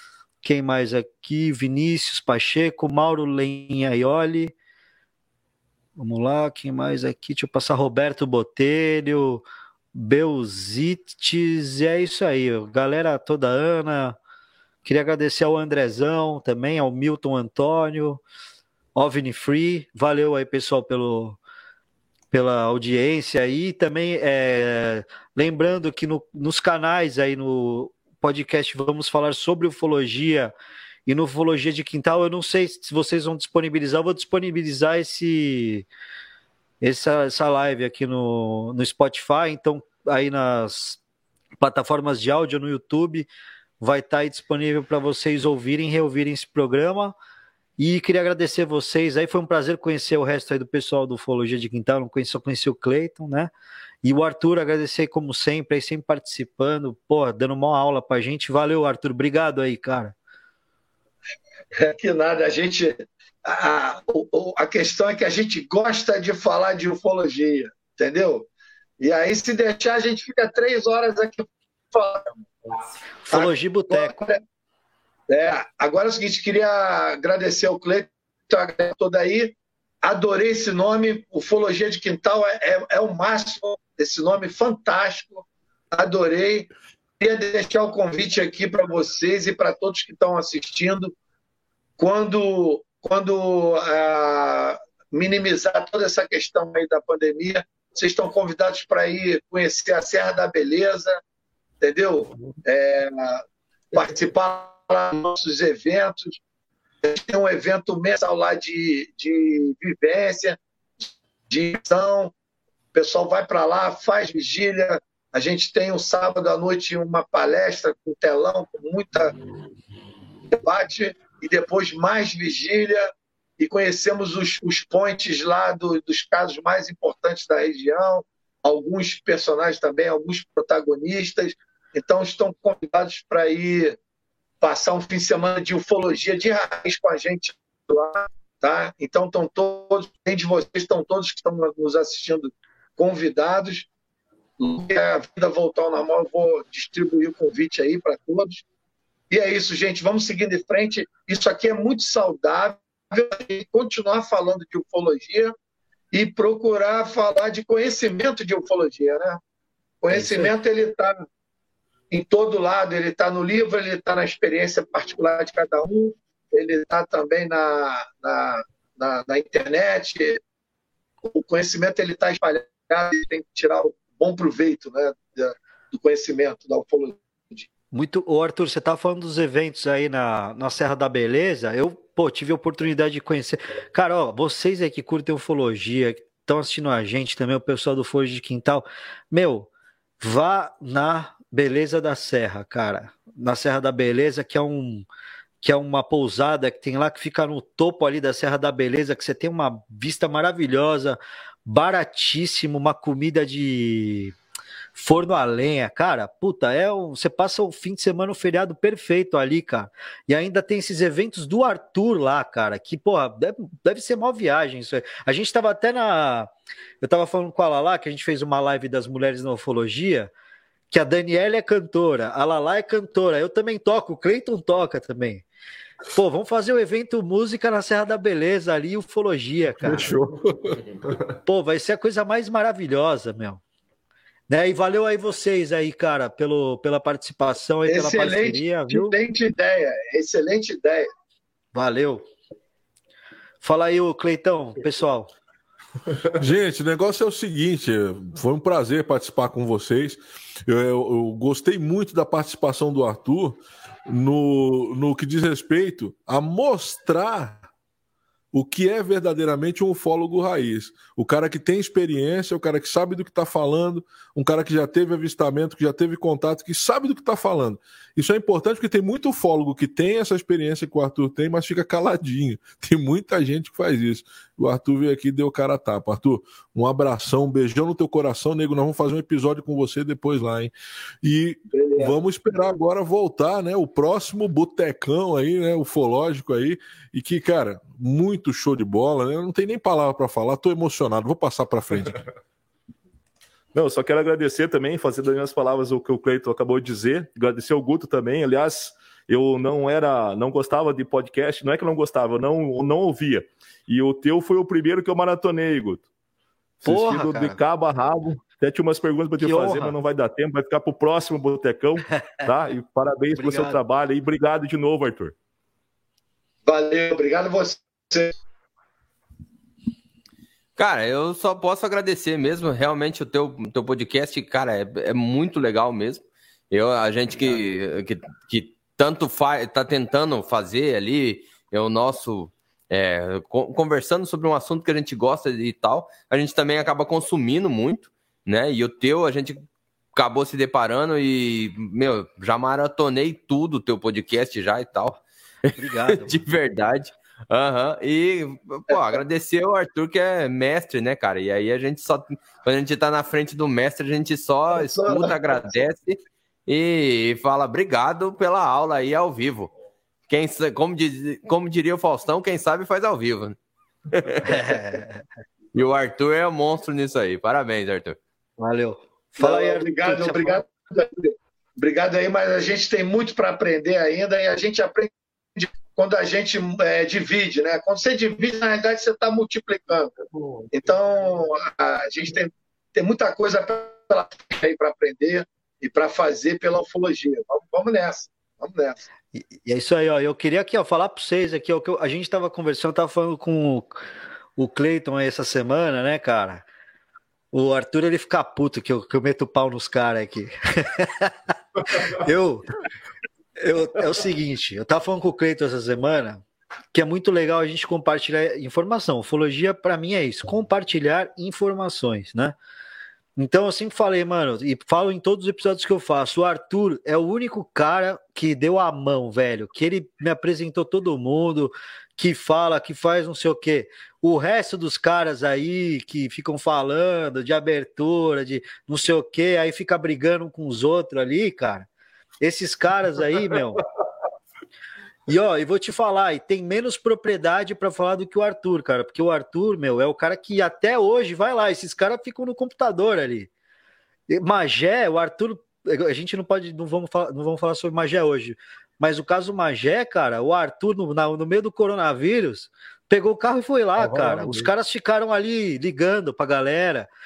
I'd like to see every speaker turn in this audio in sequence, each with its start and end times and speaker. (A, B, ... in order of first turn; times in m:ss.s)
0:00.4-0:04.5 A
0:06.0-0:14.2 A
0:14.8-0:18.2 A
0:19.0-0:21.4 A
0:22.3-0:30.5 A
0:31.1-0:35.9 A
0:36.8-0:41.0 A
0:41.6-0:43.3 A
0:43.8-0:47.2 A
0:47.8-0:53.5 A
0:54.0-1:00.2 A
1:01.8-1:08.5 B
1:09.0-1:12.4 B
1:13.2-1:14.2 A
1:13.3-1:14.4 B
1:15.3-1:31.1 B
1:32.0-1:41.2 B
1:41.8-1:46.4 B
1:47.0-1:50.6 B
1:51.5-1:52.3 B
1:52.9-1:59.3 B
2:00.5-2:14.0 B
2:14.6-2:23.9 B
2:24.6-2:28.6 B
2:29.3-2:35.5 B
2:36.1-2:39.4 B
2:40.0-2:41.2 B
2:40.1-2:40.5 A
2:42.1-2:50.4 B
2:51.2-2:57.7 B
2:57.9-3:09.7 A
3:10.2-3:15.1 A
3:15.6-3:24.4 A
3:25.0-3:36.5 A
3:37.0-3:40.3 A
3:40.9-3:45.4 A
3:46.1-3:50.1 A
3:49.8-3:50.8 C
3:51.4-3:53.6 A
3:54.5-3:59.2 A
3:57.9-4:01.1 B
4:01.7-4:02.3 A
4:03.6-4:05.3 A
4:06.4-4:17.6 C
4:18.5-4:40.7 C
4:41.2-4:52.2 C
4:41.7-4:42.2 B
4:53.7-5:06.1 D
5:06.8-5:15.4 D
5:06.8-5:07.6 A
5:09.4-5:09.9 A
5:12.1-5:12.4 A
5:13.3-5:13.8 A
5:16.7-5:18.4 B
5:20.8-5:39.6 E
5:40.2-5:59.7 E
5:45.8-5:46.4 A
5:48.9-5:49.2 B
5:54.7-5:55.8 B
6:00.3-6:03.6 E
6:04.1-6:04.7 E
6:04.4-6:05.2 A
6:05.7-6:08.2 E
6:08.6-6:10.6 A
6:09.4-6:20.1 B
6:20.4-6:20.7 D
6:20.7-6:29.0 B
6:29.3-6:34.0 A
6:34.6-6:36.6 A
6:37.5-6:41.3 A
6:41.9-6:42.7 A
6:43.6-6:52.6 A
6:53.4-7:11.9 A
7:12.4-7:13.8 A
7:15.3-7:23.5 A
7:24.3-7:37.1 A
7:34.0-7:34.7 C